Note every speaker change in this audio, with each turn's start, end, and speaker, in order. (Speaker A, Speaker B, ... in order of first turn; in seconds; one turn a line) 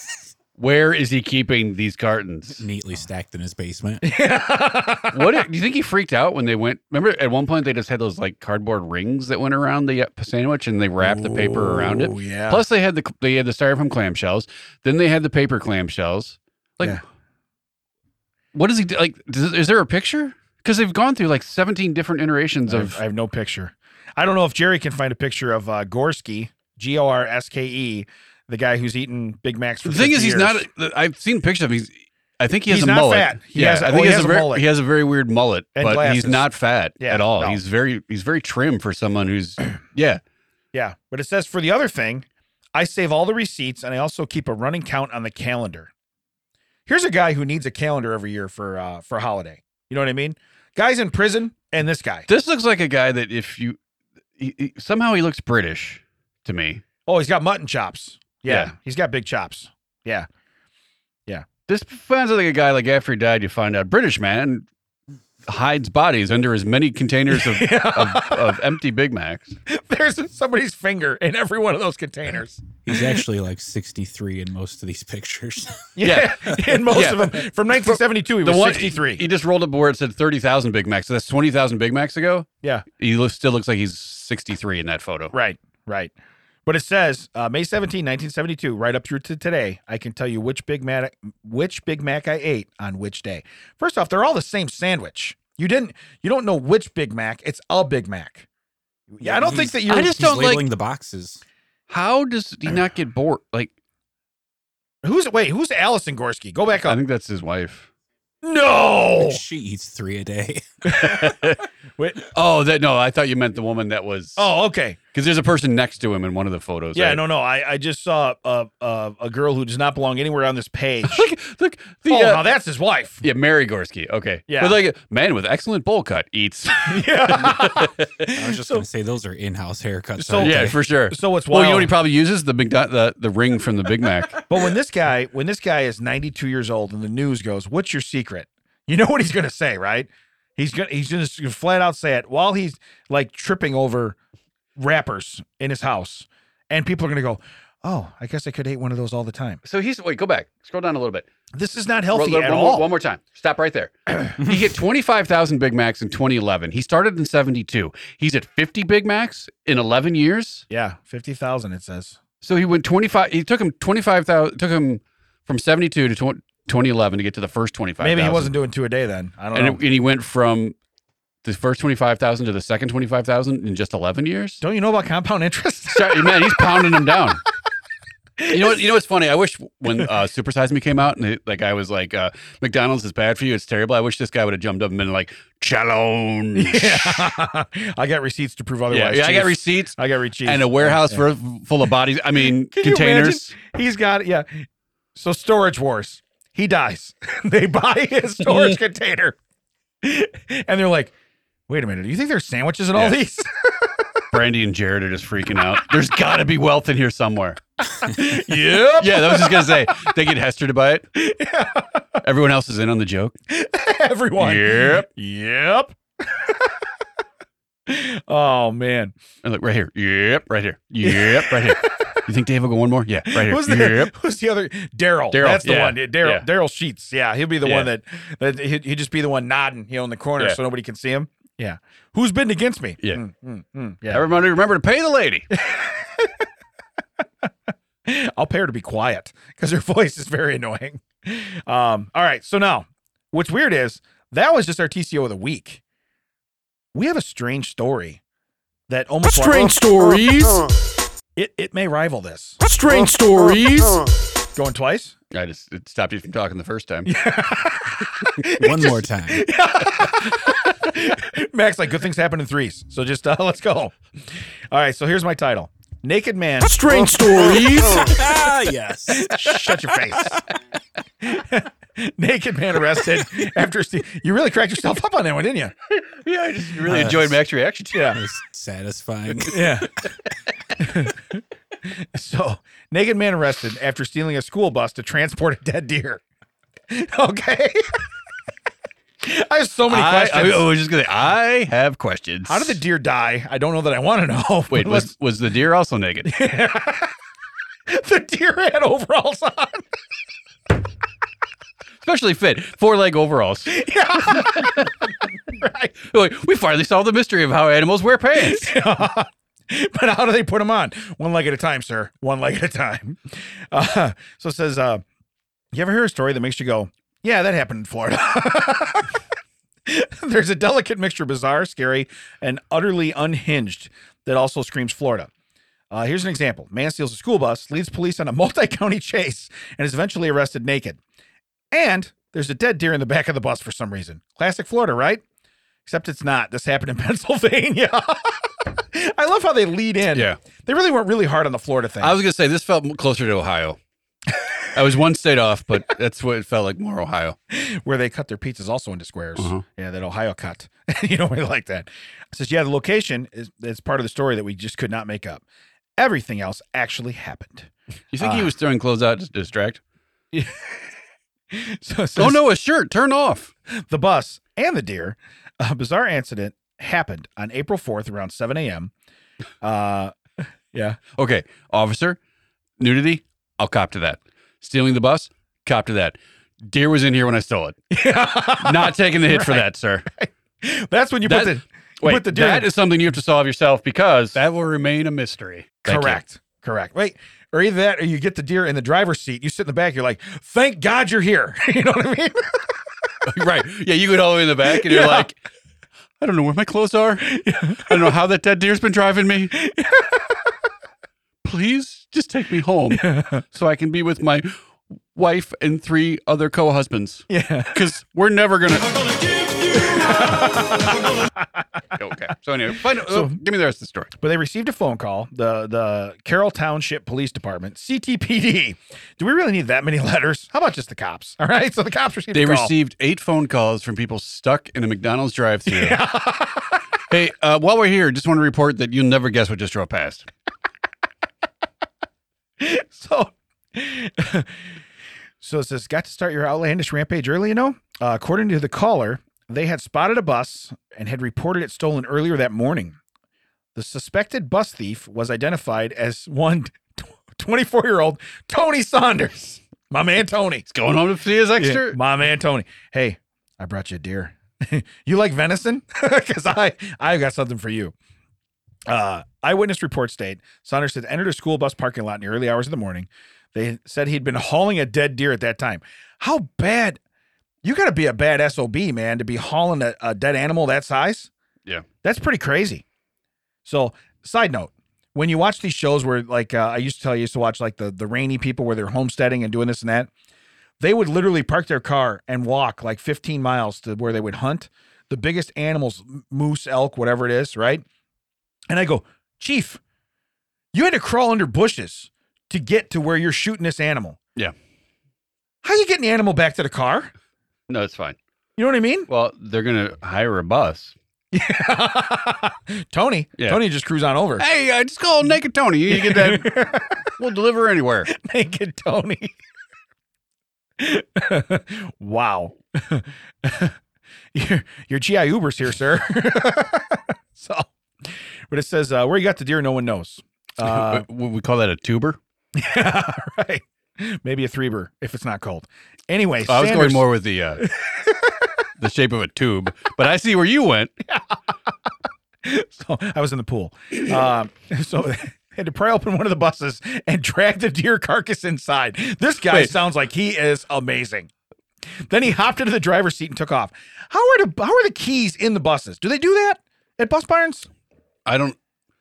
Speaker A: 0.6-2.6
Speaker B: 2.6-4.0
Speaker C: 4.0-5.4
Speaker A: 5.1-17.0
Speaker C: 11.0-12.6
Speaker A: 18.5-23.0
Speaker C: 22.7-30.6
Speaker A: 29.8-40.2
Speaker C: 32.7-34.6
Speaker C: 35.8-36.4
Speaker C: 37.0-37.6
Speaker C: 40.7-45.9
Speaker C: 46.9-52.3
Speaker A: 52.3-53.8
Speaker A: 54.4-56.8
Speaker C: 57.1-60.3
Speaker A: 58.5-58.7
Speaker A: 61.7-64.7
Speaker A: 65.5-69.5
Speaker C: 67.3-68.6
Speaker C: 69.7-73.2
Speaker B: 72.8-75.9
Speaker C: 76.0-79.2
Speaker A: 76.0-85.3
Speaker C: 85.3-86.1
Speaker C: 86.7-98.5
Speaker C: 99.1-100.2
Speaker B: 99.2-101.4
Speaker A: 99.4-100.6
Speaker A: 101.9-103.7
Speaker C: 105.0-107.0
Speaker A: 106.8-107.9
Speaker C: 108.4-109.4
Speaker B: 109.2-111.1
Speaker C: 110.8-111.4
Speaker A: 110.9-111.6
Speaker C: 112.0-112.2
Speaker A: 112.3-114.5
Speaker C: 114.4-115.0
Speaker A: 115.1-117.2
Speaker C: 116.9-121.3
Speaker A: 121.0-122.4
Speaker C: 122.1-123.2
Speaker A: 123.2-128.3
Speaker C: 124.5-124.8
Speaker C: 126.8-128.8
Speaker B: 128.3-130.8
Speaker C: 130.2-131.9
Speaker A: 130.4-134.4
Speaker C: 134.5-144.2
Speaker C: 144.8-149.6
Speaker A: 149.6-151.3
Speaker C: 151.6-152.9
Speaker A: 152.1-160.7
Speaker C: 160.7-162.2
Speaker A: 162.4-168.5
Speaker C: 168.0-169.8
Speaker A: 169.5-170.8
Speaker A: 171.4-174.6
Speaker C: 174.6-176.9
Speaker A: 175.9-177.4
Speaker C: 178.4-178.8
Speaker A: 178.5-187.4
Speaker C: 186.5-191.2
Speaker A: 188.9-193.5
Speaker C: 192.7-199.3
Speaker C: 200.0-201.1
Speaker C: 201.7-204.1
Speaker A: 204.3-211.0
Speaker C: 207.9-210.1
Speaker C: 211.1-212.2
Speaker A: 212.2-213.3
Speaker C: 213.5-216.7
Speaker A: 214.4-215.1
Speaker C: 217.9-219.1
Speaker A: 219.4-224.1
Speaker C: 221.0-222.2
Speaker C: 223.3-234.2
Speaker A: 225.3-226.4
Speaker A: 227.6-227.9
Speaker A: 234.1-235.5
Speaker C: 235.5-236.5
Speaker C: 238.0-245.8
Speaker C: 246.9-248.2
Speaker C: 248.9-249.8
Speaker A: 249.3-250.6
Speaker C: 251.3-252.6
Speaker A: 252.7-254.0
Speaker B: 252.7-253.8
Speaker C: 254.6-255.2
Speaker A: 255.3-257.1
Speaker C: 257.0-264.0
Speaker B: 258.4-259.5
Speaker C: 264.7-266.8
Speaker B: 266.7-269.8
Speaker A: 266.8-268.1
Speaker C: 269.1-270.4
Speaker C: 271.2-275.7
Speaker A: 275.9-278.1
Speaker B: 276.8-277.4
Speaker C: 277.9-278.2
Speaker B: 278.1-279.9
Speaker C: 279.4-280.1
Speaker C: 280.8-286.2
Speaker C: 286.9-288.0
Speaker C: 289.2-290.7
Speaker A: 289.9-292.8
Speaker C: 292.5-295.1
Speaker A: 294.7-296.3
Speaker C: 296.2-297.1
Speaker C: 297.9-299.8
Speaker A: 302.0-304.9
Speaker C: 303.7-305.9
Speaker A: 306.0-308.7
Speaker C: 308.4-315.0
Speaker C: 315.7-319.2
Speaker C: 319.9-325.3
Speaker C: 325.9-331.0
Speaker C: 331.7-335.2
Speaker C: 335.8-342.2
Speaker A: 342.0-343.8
Speaker A: 344.7-347.4
Speaker C: 347.5-355.4
Speaker A: 349.4-349.6
Speaker C: 356.0-358.5
Speaker A: 358.1-359.8
Speaker C: 360.3-360.9
Speaker C: 361.5-362.4
Speaker A: 362.2-363.5
Speaker C: 363.7-368.9
Speaker C: 369.6-370.1
Speaker C: 370.7-371.0
Speaker A: 371.1-372.2
Speaker A: 372.8-377.8
Speaker C: 377.9-382.7
Speaker A: 378.6-380.1
Speaker A: 381.2-386.2
Speaker C: 385.8-392.7
Speaker A: 393.3-395.4
Speaker C: 394.6-395.3
Speaker A: 396.2-399.5
Speaker C: 397.2-398.1
Speaker C: 399.5-400.5
Speaker A: 401.4-404.5
Speaker C: 402.9-403.4
Speaker A: 405.1-410.2
Speaker C: 407.3-407.9
Speaker C: 409.8-411.4
Speaker A: 411.9-414.1
Speaker C: 412.9-413.4
Speaker C: 414.2-422.7
Speaker A: 422.3-426.0
Speaker C: 425.7-426.8
Speaker A: 427.1-430.3
Speaker C: 432.6-434.5
Speaker C: 435.4-443.0
Speaker C: 443.7-450.6
Speaker A: 450.7-452.0
Speaker C: 451.6-457.9
Speaker C: 458.9-467.0
Speaker C: 467.6-471.3
Speaker C: 472.0-472.8
Speaker C: 473.6-480.1
Speaker C: 480.8-487.8
Speaker C: 488.7-489.8
Speaker C: 490.7-494.2
Speaker C: 495.6-497.1
Speaker A: 497.7-498.2
Speaker C: 498.6-499.1
Speaker A: 499.1-500.9
Speaker C: 501.3-504.4
Speaker A: 504.4-506.6
Speaker C: 505.9-507.1
Speaker A: 507.2-508.1
Speaker C: 508.1-509.3
Speaker C: 510.8-513.8
Speaker C: 514.3-521.0
Speaker A: 520.6-522.2
Speaker C: 522.5-527.0
Speaker A: 526.5-527.6
Speaker C: 527.6-528.4
Speaker A: 528.8-530.9
Speaker C: 531.0-531.4
Speaker C: 532.4-541.3
Speaker A: 539.5-539.8
Speaker C: 542.0-547.7
Speaker A: 548.2-548.5